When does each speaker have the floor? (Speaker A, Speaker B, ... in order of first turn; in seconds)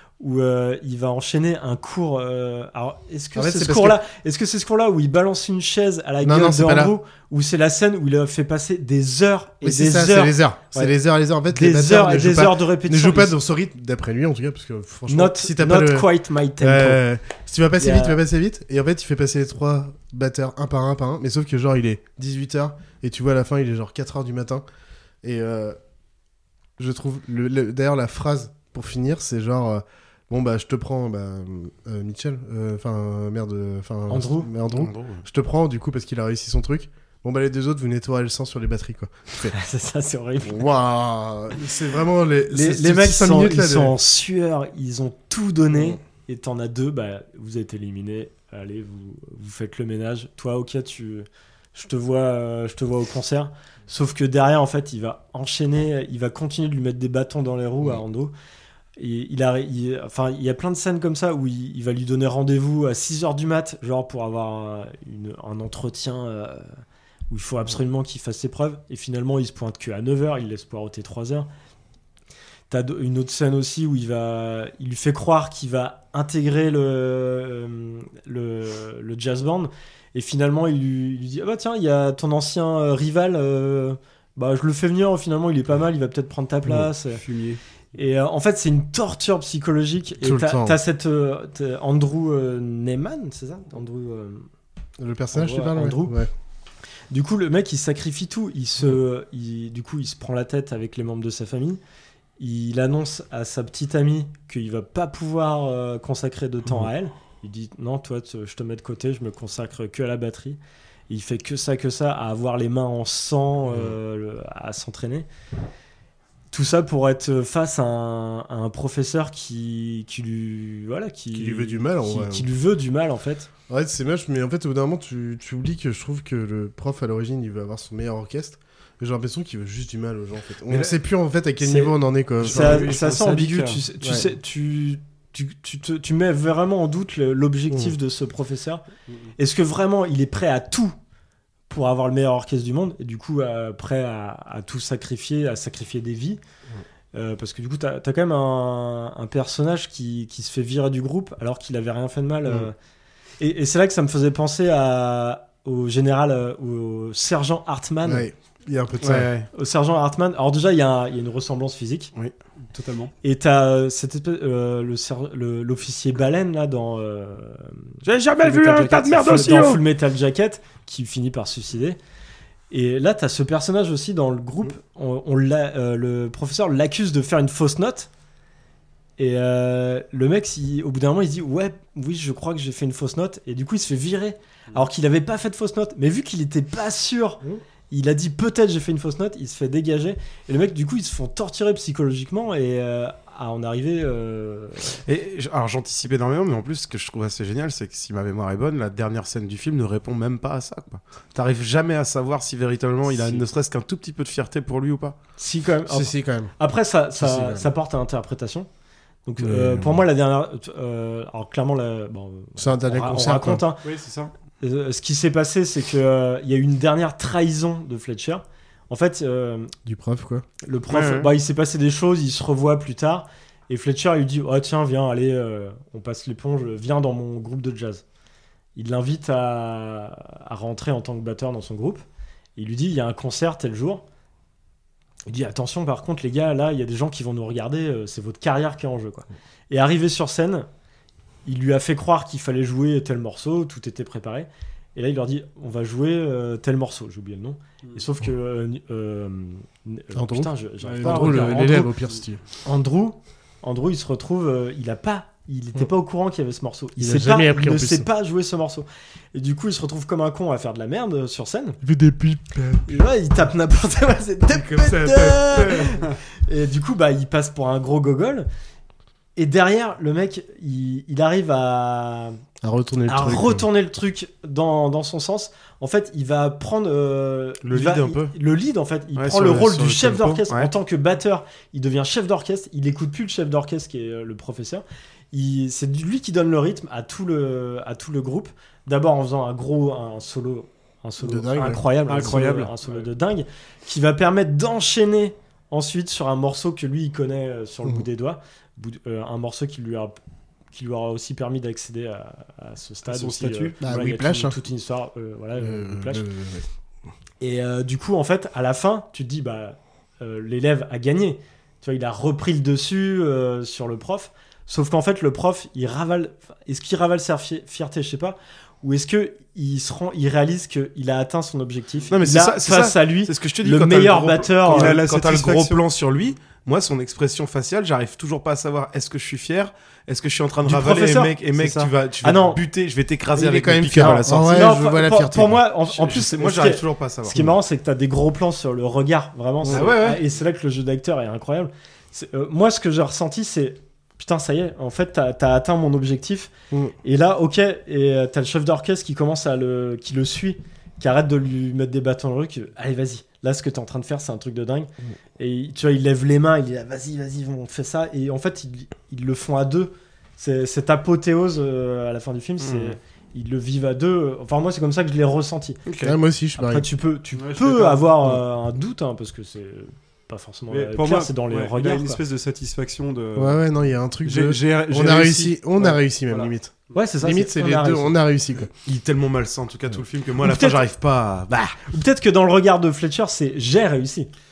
Speaker A: 0.2-10.9, 11.5-13.3, 15.1-17.0, 17.8-18.2, 34.1-34.5, 39.5-40.6, 42.5-58.3, 59.0-71.5, 72.7-87.2, 87.9-94.5, 95.3-96.1, 97.1-101.8, 102.4-115.3, 116.5-123.5, 131.6-138.8, 139.4-140.9, 141.7-146.4, 147.1-152.7, 153.4-158.3, 159.5-162.1, 163.2-172.0, 172.7-178.1, 179.2-194.9, 205.4-208.7, 209.2-213.8, 214.6-219.7, 220.6-228.0, 228.8-232.0, 232.6-234.0, 235.3-240.7, 241.4-251.9, 252.6-261.8, 262.9-268.5, 269.4-272.4, 273.1-300.1, 300.7-306.2, 307.4-325.0, 330.6-332.6, 334.0-346.5, 347.0-365.8, 366.6-372.2, 376.9-378.2, 380.4-380.9, 381.8-384.3
Speaker B: 3.3-4.0, 6.2-6.9, 9.6-16.1, 16.6-24.6, 25.2-25.8, 26.8-39.5, 40.4-44.0, 45.7-46.0, 90.2-90.8, 95.0-96.3, 121.3-122.5, 123.7-132.9, 134.0-134.3, 158.0-159.3, 205.9-206.5, 207.2-207.7, 209.4-210.0, 212.6-213.6, 219.8-220.4, 250.1-252.4, 257.0-258.1, 261.8-263.1, 264.5-266.0, 272.6-273.7, 291.2-292.4, 303.8-304.6, 305.6-306.6, 333.3-335.7, 366.0-366.9, 373.4-378.7
Speaker C: 34.7-35.2, 159.0-159.5, 168.0-169.8, 195.1-205.2, 220.9-221.3, 277.6-278.3, 279.1-280.7, 322.1-334.7, 335.9-337.5, 339.7-340.2, 362.6-363.0, 365.9-366.1, 378.8-381.8
Speaker D: 86.7-87.6, 132.4-133.8, 162.7-163.1, 213.8-214.3, 250.8-252.1, 292.1-293.1, 303.1-303.8, 324.7-325.8, 339.7-340.1, 367.3-368.4, 370.7-373.6, 374.2-376.5